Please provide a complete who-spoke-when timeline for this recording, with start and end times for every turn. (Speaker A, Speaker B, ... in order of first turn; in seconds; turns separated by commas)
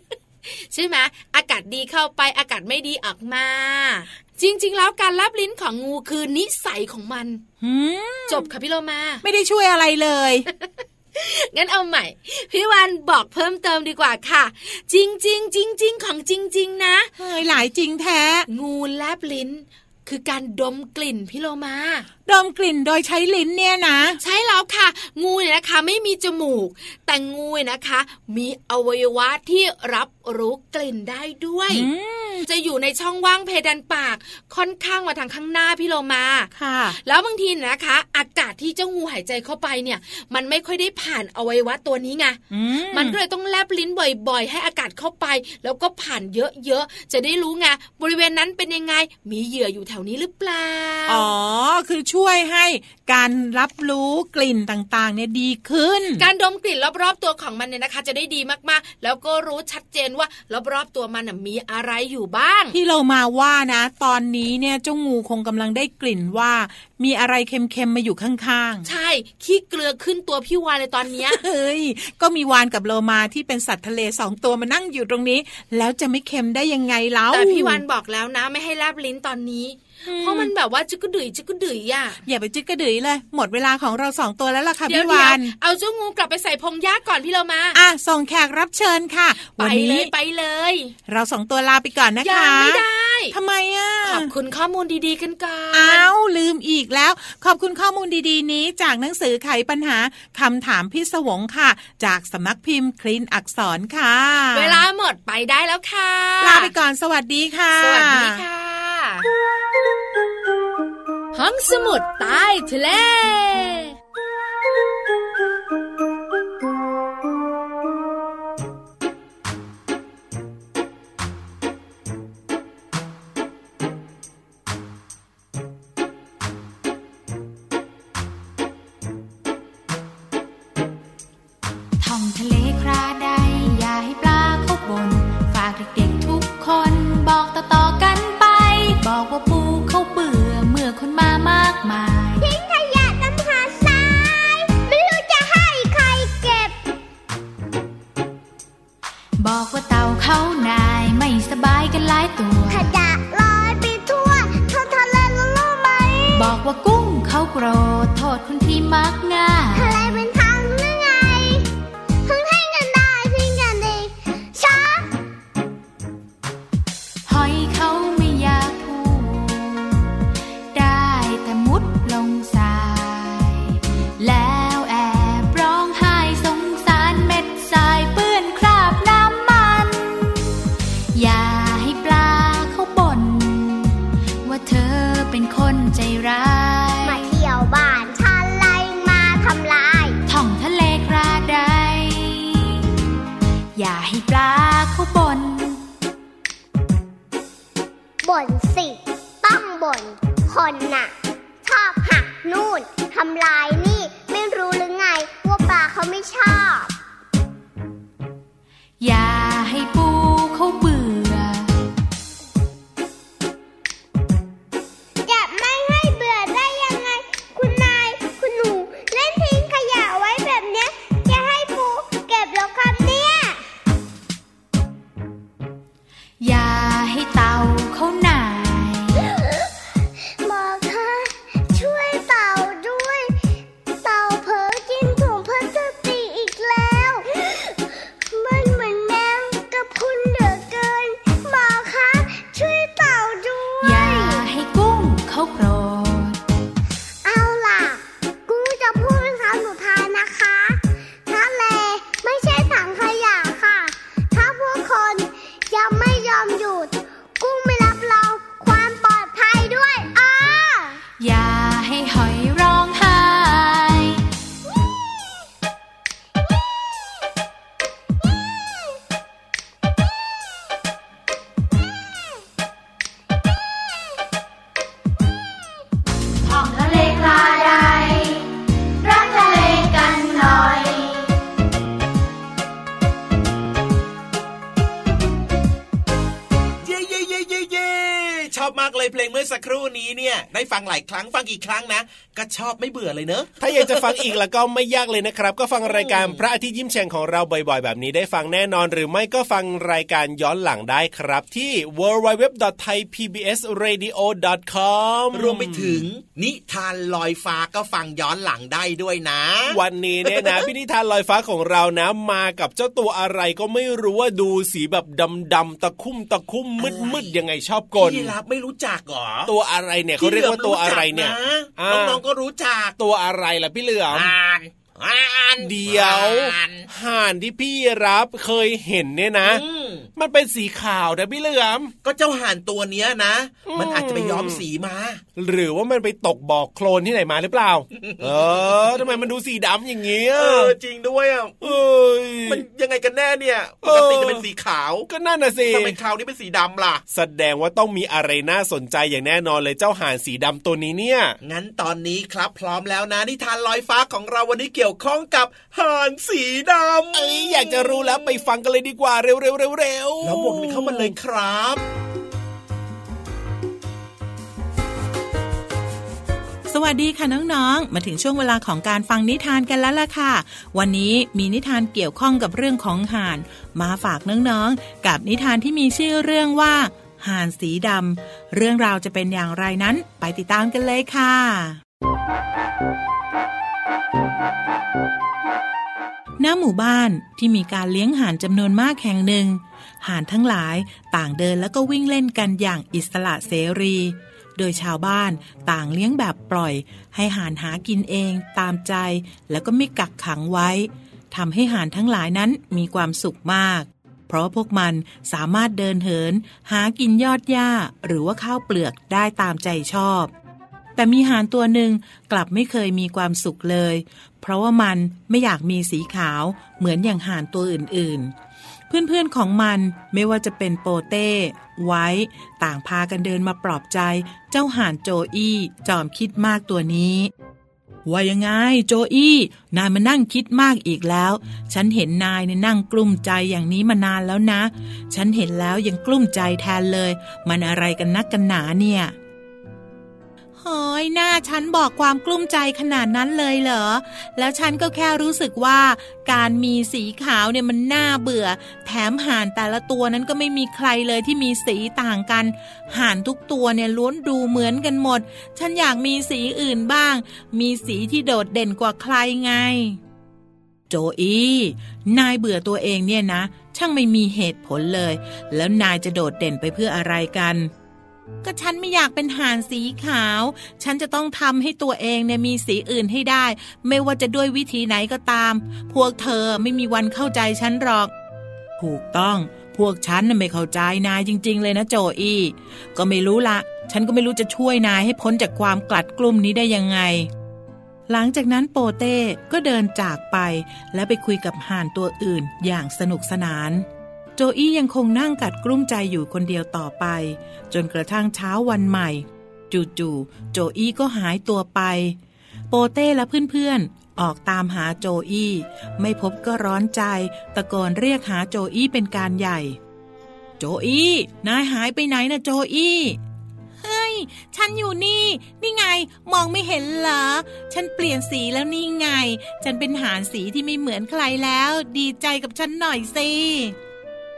Speaker A: 0.5-7.4, Speaker B: 7.6-8.5, Speaker A: 8.3-9.2, Speaker B: 9.2-10.5, Speaker A: 10.5-17.1, Speaker B: 17.2-18.5, Speaker A: 18.5-22.1, Speaker B: 22.3-24.2, Speaker A: 24.2-31.9, Speaker B: 31.7-32.5, Speaker A: 32.5-51.3, Speaker B: 36.5-37.0, Speaker B: 42.5-43.2, Speaker B: 51.1-56.3, Speaker A: 56.2-62.8, Speaker B: 62.7-68.9, Speaker A: 68.8-71.4, Speaker B: 71.3-77.8, Speaker A: 77.3-82.2, Speaker B: 80.1-80.5, Speaker B: 82.3-85.5, Speaker A: 84.9-87.8, Speaker B: 87.7-90.1, Speaker A: 89.5-90.9, Speaker B: 91.1-94.3, Speaker A: 92.2-93.3, Speaker A: 94.0-96.1, Speaker B: 95.7-104.8, Speaker A: 104.5-106.7, Speaker B: 106.4-108.4, Speaker A: 107.8-109.3, Speaker A: 111.3-113.9, Speaker C: 132.0-142.5, Speaker D: 142.4-146.8, Speaker C: 149.4-152.9, Speaker D: 152.7-156.6, Speaker C: 156.3-160.2, Speaker D: 159.7-161.7, Speaker D: 162.2-165.1, Speaker C: 167.3-170.0, Speaker C: 170.7-180.3, Speaker C: 181.2-187.3, Speaker D: 187.0-190.2, Speaker C: 190.3-192.8, Speaker C: 193.8-195.8, Speaker D: 198.2-201.1, Speaker D: 201.6-206.9, Speaker C: 209.0-211.7, Speaker D: 215.2-223.6, Speaker C: 226.4-229.2, Speaker D: 230.4-233.3, Speaker D: 234.0-244.4, Speaker C: 243.8-246.4, Speaker D: 247.2-261.0, Speaker C: 261.2-264.2, Speaker C: 276.4-278.4, Speaker C: 279.0-281.2, Speaker E: 286.8-294.3, Speaker F: 293.6-306.1, Speaker E: 295.9-296.4, Speaker E: 305.3-310.7, Speaker F: 309.7-318.4, Speaker E: 316.8-317.4, Speaker E: 317.9-319.5, Speaker F: 319.5-322.2, Speaker E: 320.2-322.9, Speaker F: 323.0-324.3, Speaker E: 324.1-326.9, Speaker F: 325.6-329.6, Speaker E: 329.4-330.1, Speaker F: 330.2-331.9, Speaker E: 332.0-335.2, Speaker F: 333.7-334.6, Speaker F: 335.4-340.7, Speaker E: 338.0-338.9, Speaker E: 340.4-341.8, Speaker F: 341.6-342.6, Speaker E: 342.5-345.1, Speaker F: 343.8-344.5, Speaker F: 345.1-346.0, Speaker E: 345.7-347.0, Speaker F: 347.1-351.4, Speaker E: 351.4-358.4, Speaker F: 357.1-361.1, Speaker E: 360.2-361.8, Speaker B: 366.7-381.8, Speaker B: 386.4-410.3, Speaker B: 411.0-418.3, Speaker B: 418.9-427.3, Speaker B: 428.1-439.1, Speaker B: 440.6-460.0, Speaker B: 460.9-467.7, Speaker B: 468.4-478.1, Speaker B: 478.8-487.3, Speaker B: 488.1-493.9, Speaker B: 494.4-502.2, Speaker B: 502.7-509.8, Speaker B: 510.6-513.2, Speaker B: 513.8-523.8